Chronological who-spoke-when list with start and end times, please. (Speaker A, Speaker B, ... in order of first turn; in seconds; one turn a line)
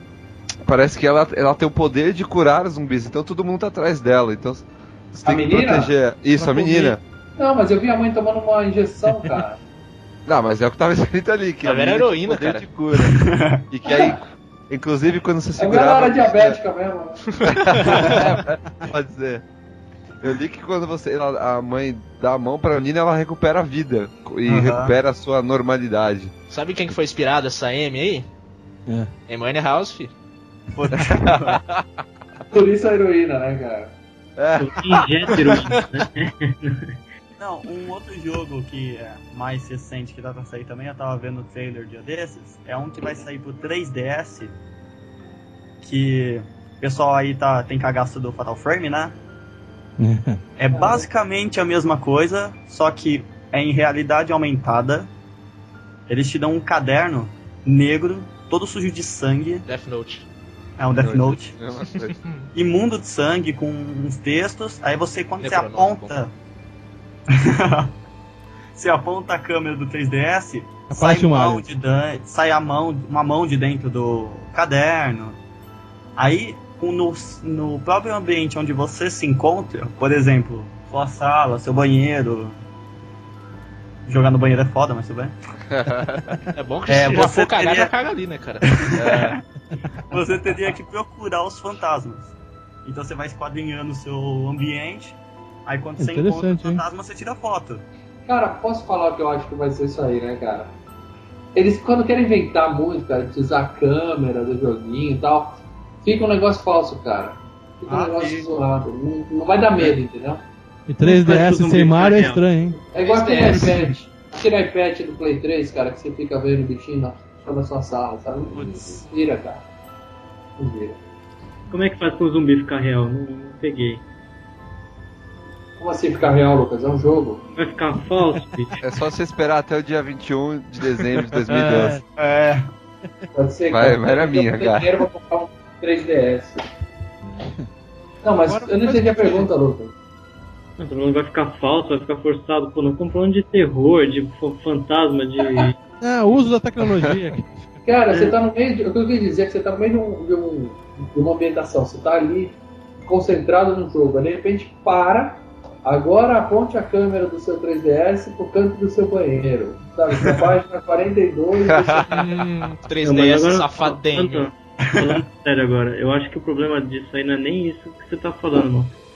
Speaker A: 0.6-7.0
Speaker B: 5.2-5.9
Speaker C: 6.3-7.0
Speaker B: 7.4-9.6
Speaker A: 10.2-16.6
Speaker D: 11.6-12.7
Speaker E: 12.9-14.1
Speaker B: 15.6-17.3
Speaker A: 17.4-19.4
Speaker D: 17.4-18.0
Speaker A: 20.2-26.3
Speaker E: 24.4-24.9
Speaker D: 26.5-28.3
Speaker D: 29.3-30.1
Speaker E: 30.7-31.6
Speaker A: 30.9-31.8
Speaker B: 32.5-33.9
Speaker A: 34.4-35.5
Speaker F: 34.6-37.0
Speaker E: 37.4-44.5
Speaker E: 45.8-49.1
Speaker C: 50.0-50.4
Speaker E: 50.6-55.1
Speaker B: 50.7-51.0
Speaker E: 56.1-59.6
Speaker D: 59.6-60.2
Speaker E: 60.8-61.5
Speaker A: 61.0-62.1
Speaker D: 62.0-62.5
Speaker E: 62.5-66.3
Speaker D: 65.4-66.1
Speaker E: 67.3-67.9
Speaker E: 68.7-75.4
Speaker C: 70.9-71.6
Speaker E: 76.2-82.6
Speaker E: 84.0-85.3
Speaker A: 85.7-86.4
Speaker D: 86.5-89.0
Speaker E: 86.9-87.9
Speaker E: 88.7-89.4
Speaker A: 89.0-89.3
Speaker E: 90.1-92.3
Speaker E: 92.8-97.8
Speaker C: 96.0-96.8
Speaker B: 98.2-100.7
Speaker B: 101.5-110.4
Speaker E: 107.9-108.5
Speaker C: 110.9-112.8
Speaker F: 111.0-112.4
Speaker B: 112.9-119.6
Speaker D: 113.0-113.6
Speaker B: 120.6-121.0
Speaker F: 121.7-124.0
Speaker B: 125.8-127.4
Speaker F: 127.5-128.7
Speaker A: 128.8-132.0
Speaker C: 131.4-132.0
Speaker E: 132.2-132.7
Speaker B: 133.3-136.6
Speaker A: 133.7-134.9
Speaker C: 137.2-137.7
Speaker B: 138.2-139.9
Speaker C: 138.4-139.5
Speaker F: 140.8-145.8
Speaker C: 146.0-147.7
Speaker B: 147.8-162.2
Speaker A: 161.7-162.2
Speaker D: 162.1-164.5
Speaker F: 163.0-168.9
Speaker E: 164.9-165.2